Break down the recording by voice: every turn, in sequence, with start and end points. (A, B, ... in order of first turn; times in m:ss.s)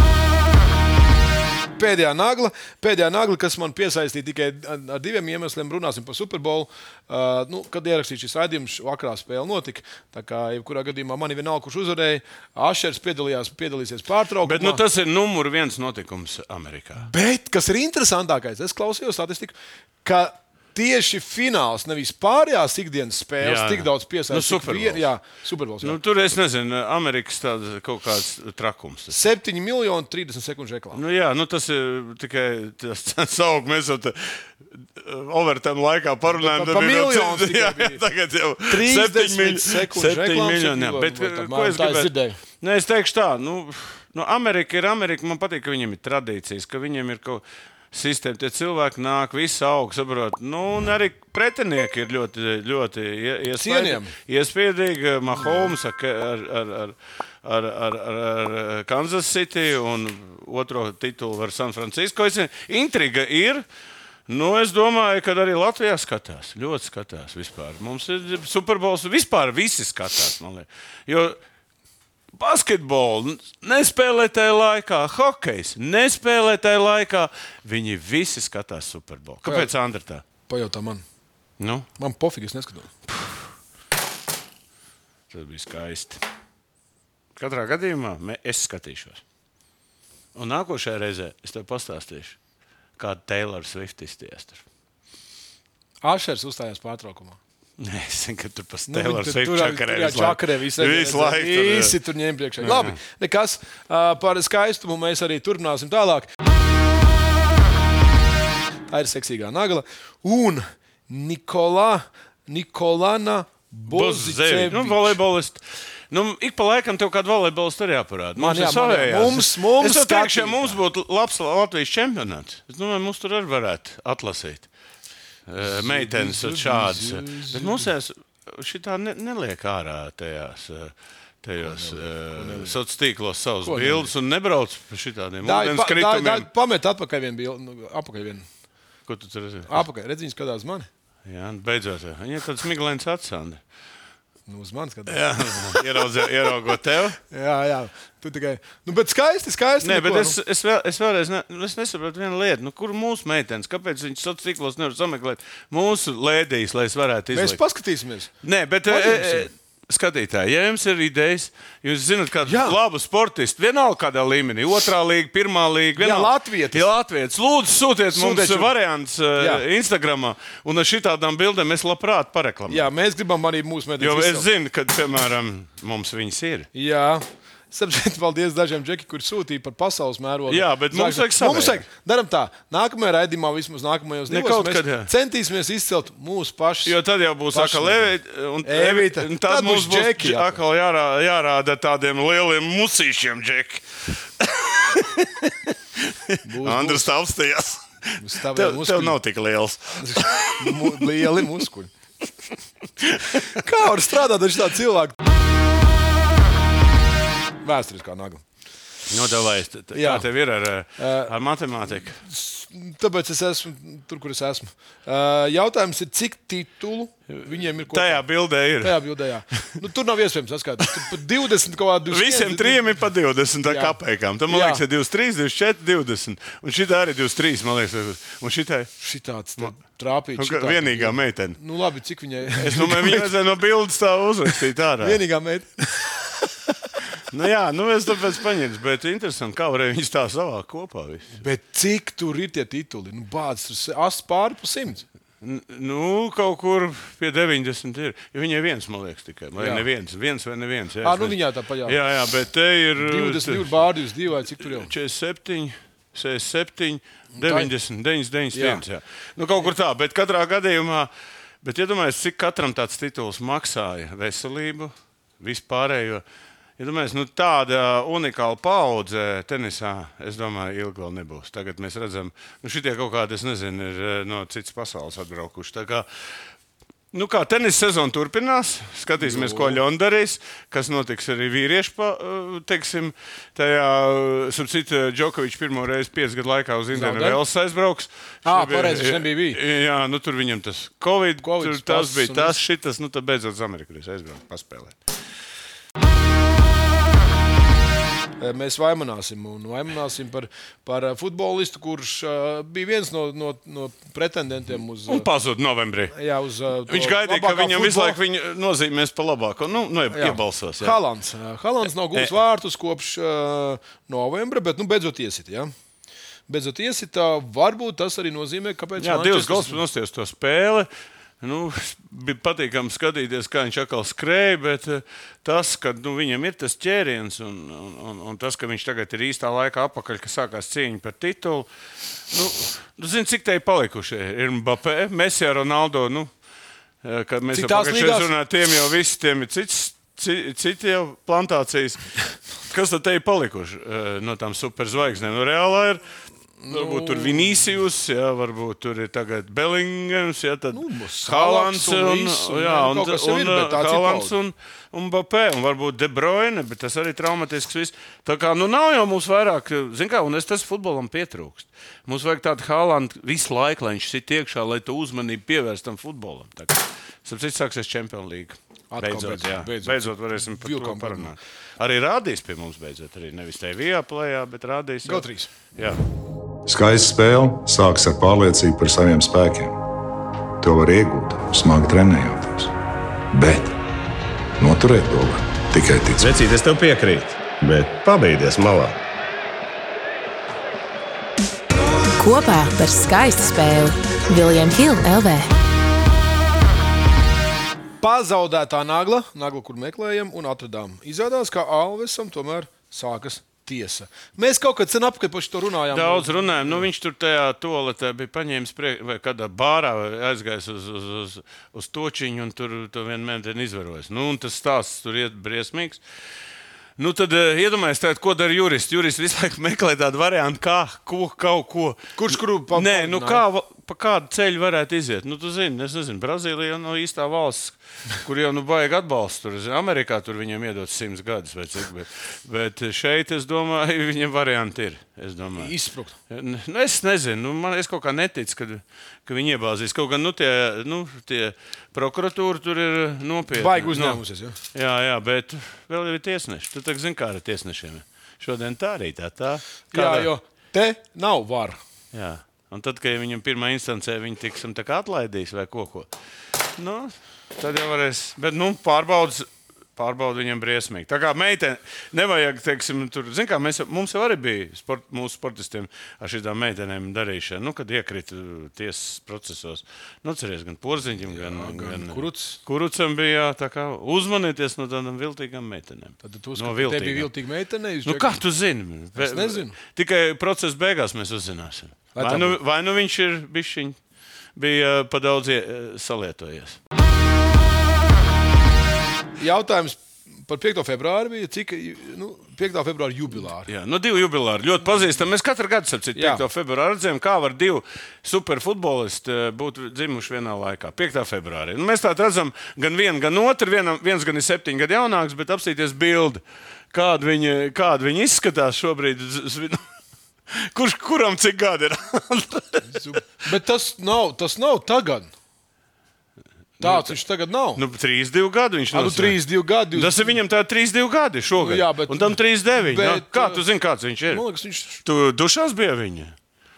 0:01.8-0:14.8 A
0:14.4-0:17.1 B
0:17.0-0:26.0 A
0:23.4-0:25.0 B
0:25.8-0:29.2 B
0:29.1-0:31.0 A
0:30.9-1:03.6 B
0:36.3-0:38.0 A
0:38.7-0:42.4 A
0:53.5-0:54.1 A
0:55.4-0:55.7 A
1:04.3-1:11.4 B
1:12.4-1:20.2 B
1:19.4-1:19.7 A
1:20.5-1:21.0 A
1:21.6-1:21.9 B
1:22.0-1:22.9 A
1:25.3-1:26.2 B
1:27.4-1:29.2 B
1:30.3-1:32.4 B
1:33.0-1:34.6 B
1:36.0-1:37.4 A
1:37.8-1:42.0 B
1:38.9-1:46.3 A
1:42.6-1:43.0 B
1:48.9-1:55.2 A
1:53.9-2:04.7 B
1:58.4-2:00.8 A
2:05.5-2:16.5 B
2:05.6-2:07.9 A
2:11.6-2:12.8 A
2:13.6-2:14.1 A
2:15.4-2:18.5 A
2:19.1-2:19.8 B
2:19.7-2:20.9 A
2:21.2-2:23.6 B
2:24.5-2:26.2 A
2:25.1-2:27.2 B
2:27.3-2:30.4 A
2:29.8-2:37.6 B
2:37.3-2:38.3 A
2:38.4-2:52.9 B
2:38.9-2:39.5 A
2:42.4-2:42.8 A
2:46.0-2:46.9 A
2:48.1-2:48.7 A
2:49.4-2:49.6 A
2:52.7-2:54.5 A
2:54.0-2:56.7 B
2:56.7-3:07.0 A
3:00.5-3:01.8 B
3:04.3-3:05.1 B
3:06.8-3:21.5 B
3:07.5-3:08.1 A
3:08.6-3:10.6 A
3:16.4-3:17.1 A
3:18.2-3:19.2 A
3:20.0-3:21.9 A
3:23.0-3:23.5 B
3:23.4-3:25.2 A
3:27.6-3:28.4 A
3:29.1-3:32.2 B
3:29.9-3:30.2 A
3:31.0-3:31.3 A
3:32.1-3:42.9 A
3:37.3-3:39.1 B
3:42.1-3:48.9 B
3:43.6-3:44.8 A
3:49.0-3:53.3 A
3:50.4-3:51.6 B
3:52.6-3:55.2 B
3:54.5-3:56.7 A
3:57.3-4:01.4 B
4:01.3-4:05.0 A
4:05.4-4:13.8 B
4:09.6-4:09.8 A
4:11.0-4:12.0 A
4:13.0-4:14.9 A
4:14.6-4:21.1 B
4:17.4-4:17.7 A
4:18.5-4:18.8 A
4:21.6-4:26.2 B
4:26.8-4:36.0 B
4:37.1-4:55.0 B
4:39.2-4:39.8 A
4:46.9-4:47.4 A
4:48.4-4:49.6 A
4:51.4-4:52.6 A
4:58.4-5:05.3 A
5:05.1-5:06.2 B
5:06.1-5:08.2 A
5:06.9-5:11.0 B
5:10.1-5:15.7 A
5:16.5-5:19.8 A
5:19.0-5:20.9 B
5:21.4-5:31.7 B
5:32.3-5:36.3 B
5:37.0-5:46.0 B
5:37.5-5:38.3 A
5:46.6-5:47.6 A
5:46.7-6:16.0 B
5:50.7-5:54.4 A
6:08.9-6:11.3 A
6:15.0-6:15.5 A
6:16.6-6:19.8 C
6:20.6-6:22.7 C
6:23.3-6:23.8 C
6:24.6-6:26.3 C
6:26.2-6:29.0 D
6:32.2-6:35.5 E
6:38.0-6:46.8 A
6:45.9-6:56.0 B
6:57.0-7:15.7 B
7:02.2-7:03.4 A
7:15.6-7:16.2 A
7:16.3-7:24.2 B
7:23.5-7:24.6 A
7:24.7-7:30.3 B
7:29.9-7:31.8 A
7:32.1-7:36.1 B
7:36.8-7:57.3 B
7:51.3-7:52.6 A
7:56.2-7:58.3 A
7:58.0-8:04.0 B
7:59.2-7:59.7 A
8:02.1-8:02.6 A
8:04.6-8:06.8 B
8:09.4-8:13.7 A
8:13.6-8:26.4 B
8:16.1-8:16.4 A
8:26.9-8:29.8 B
8:30.5-8:33.2 B
8:32.9-8:35.3 A
8:36.8-8:37.2 B
8:36.8-8:37.8 A
8:37.8-8:39.4 B
8:38.9-8:40.4 A
8:39.9-8:44.4 B
8:41.6-8:43.6 A
8:44.3-8:45.0 A
8:45.0-8:46.3 B